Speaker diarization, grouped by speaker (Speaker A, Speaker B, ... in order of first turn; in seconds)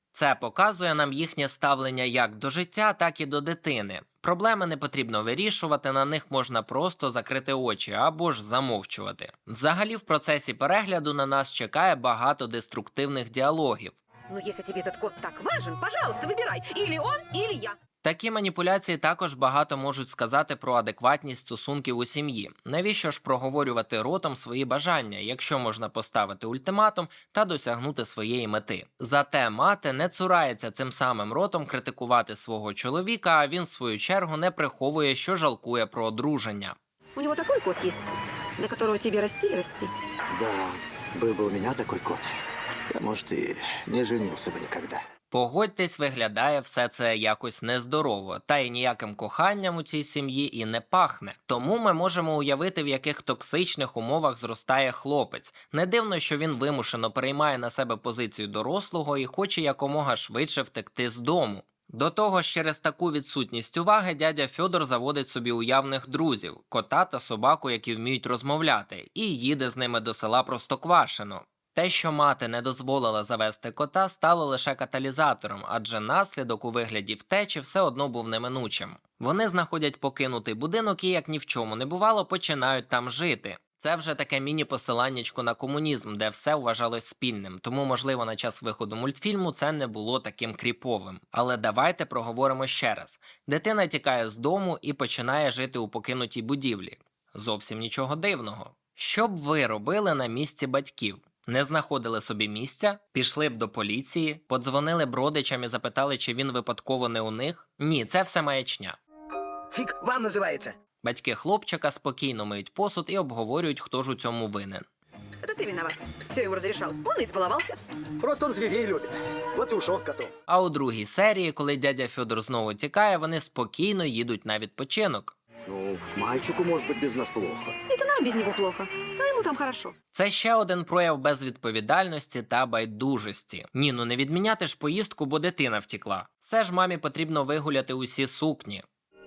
Speaker A: 0.1-14.0, 18.0-36.8, 45.3-109.0, 111.0-114.9, 120.5-125.4, 130.1-138.8
Speaker B: 14.3-17.8, 37.2-39.9, 115.4-117.8, 127.9-129.9
Speaker C: 40.3-42.3, 42.9-45.0, 109.7-110.7, 118.2-120.3, 125.7-127.8